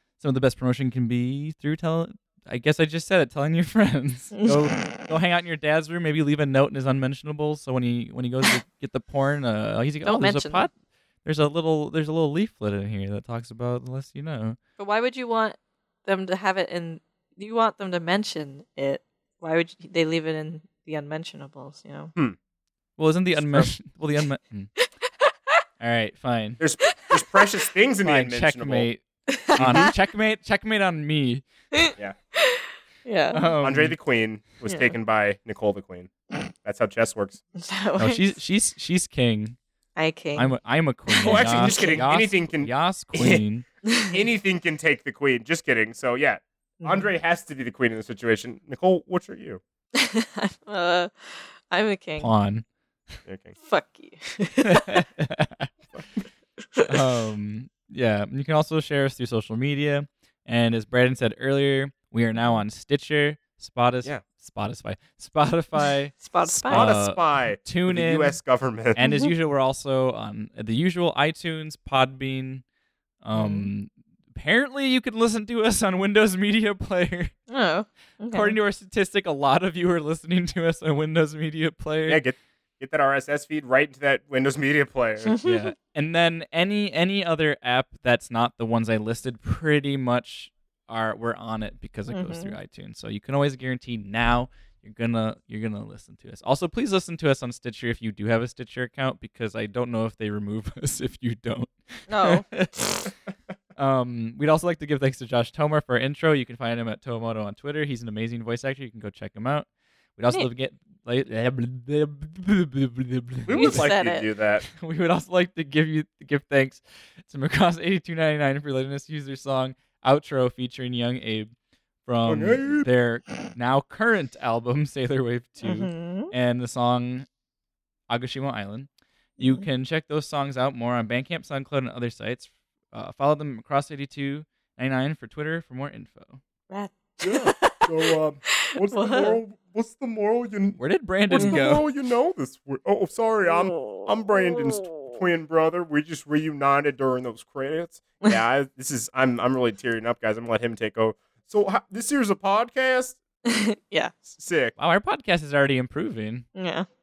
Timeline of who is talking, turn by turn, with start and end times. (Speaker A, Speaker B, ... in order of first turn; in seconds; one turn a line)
Speaker A: 0.2-10.7
Speaker B: 4.3-5.0
Speaker B: 10.0-10.7
Speaker A: 11.2-14.6
Speaker B: 14.8-22.1
Speaker A: 23.0-24.7
Speaker C: 23.3-23.7
Speaker B: 24.8-25.6
Speaker A: 25.8-26.6
Speaker C: 26.6-28.9
Speaker B: 26.9-27.4
Speaker A: 28.0-29.0
Speaker B: 29.3-29.9
Speaker C: 29.6-29.9
Speaker A: 29.6-31.4
Speaker B: 31.7-33.4
Speaker A: 33.3-34.0
Speaker C: 33.6-37.4
Speaker B: 34.6-34.9
Speaker B: 37.6-38.4
Speaker A: 38.0-39.5
Speaker B: 40.0-40.5
Speaker A: 40.4-43.6
Speaker B: 41.1-42.0
Speaker C: 41.2-43.4
Speaker B: 43.9-44.1
Speaker C: 44.1-49.6
Speaker B: 46.8-47.1
Speaker B: 50.0-52.3
Speaker A: 52.2-52.6
Speaker C: 53.2-53.5
Speaker B: 53.6-55.0
Speaker A: 54.6-55.7
Speaker A: 56.9-68.4
Speaker B: 62.3-62.6
Speaker B: 66.2-67.0
Speaker C: 66.7-69.0
Speaker A: 68.9-72.6
Speaker B: 69.0-69.3
Speaker A: 73.2-77.3
Speaker B: 73.3-73.7
Speaker B: 77.5-78.5
Speaker A: 78.3-82.2
Speaker C: 82.1-85.4
Speaker B: 85.2-85.7
Speaker A: 85.4-103.1
Speaker B: 92.1-92.5
Speaker B: 102.1-102.5
Speaker A: 103.8-113.8
Speaker C: 113.5-114.7
Speaker B: 113.5-114.3
Speaker A: 114.7-121.5
Speaker A: 122.0-127.3
Speaker C: 122.2-122.9
Speaker B: 125.6-126.3
Speaker A: 128.1-136.4
Speaker B: 129.4-129.7
Speaker B: 136.7-139.4
Speaker C: 137.2-153.2
Speaker A: 140.8-141.9
Speaker B: 143.5-145.2
Speaker B: 153.4-154.1
Speaker C: 154.3-154.7
Speaker A: 154.8-156.4
Speaker B: 156.5-156.8